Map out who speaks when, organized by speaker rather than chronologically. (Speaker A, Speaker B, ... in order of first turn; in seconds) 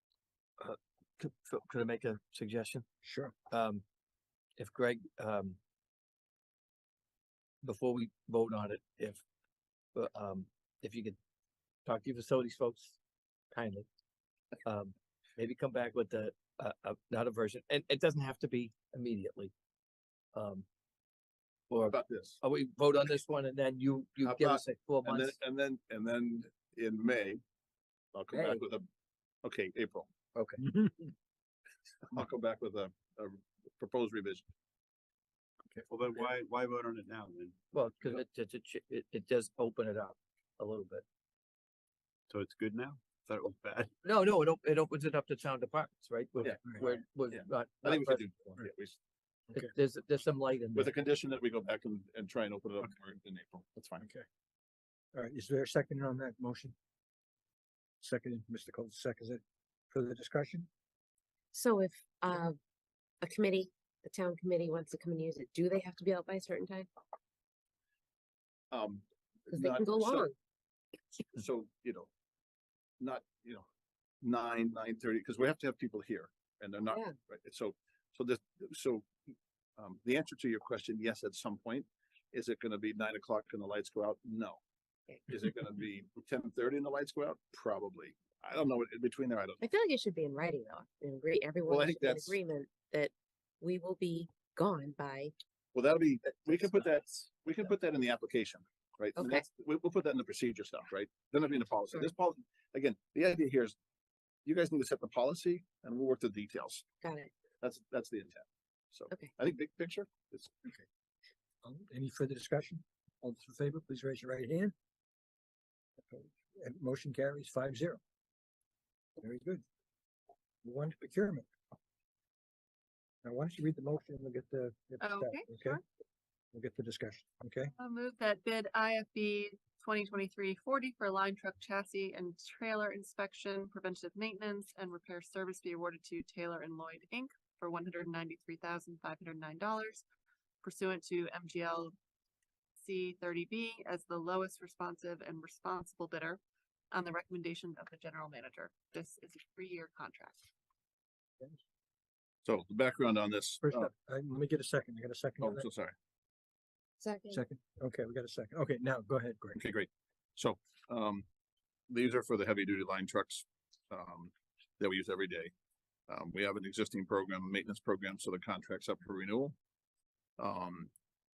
Speaker A: 0.6-2.9, 3.5-3.8, 4.6-5.6, 7.6-9.2, 9.9-11.2, 11.9-13.0, 13.5-13.9, 14.7-19.5, 20.3-20.7, 21.7-25.4, 28.3-28.6, 30.4-30.8, 37.7-41.0, 44.0-48.6, 49.5-50.9
Speaker B: 3.0-3.3, 30.6-30.9, 54.0-54.2, 55.1-56.8, 58.0-60.7, 111.6-114.7, 116.1-118.0, 119.2-119.6, 120.6-121.5, 123.2-125.8, 126.5-127.7, 153.6-155.7, 157.3-159.6
Speaker C: 21.8-22.4, 24.2-27.4, 28.1-28.9, 29.4-30.1, 32.0-34.5, 46.4-49.0, 50.8-54.1, 68.7-70.3, 71.4-72.1, 73.0-73.7, 74.2-79.2, 79.8-84.6, 85.3-89.6, 91.7-92.4, 95.7-103.8, 104.5-106.9, 107.6-110.5, 152.4-153.9, 155.4-155.9, 159.6-161.3, 161.9-165.5, 166.1-169.6, 170.4-170.9
Speaker D: 35.9-37.6, 42.3-43.9
Speaker E: 61.5-62.6, 63.2-66.9, 69.5-70.3, 89.6-95.3, 99.2-99.5, 107.0-107.3
Speaker F: 125.0-125.8, 127.8-140.0, 140.6-141.9, 142.8-146.4, 146.9-150.4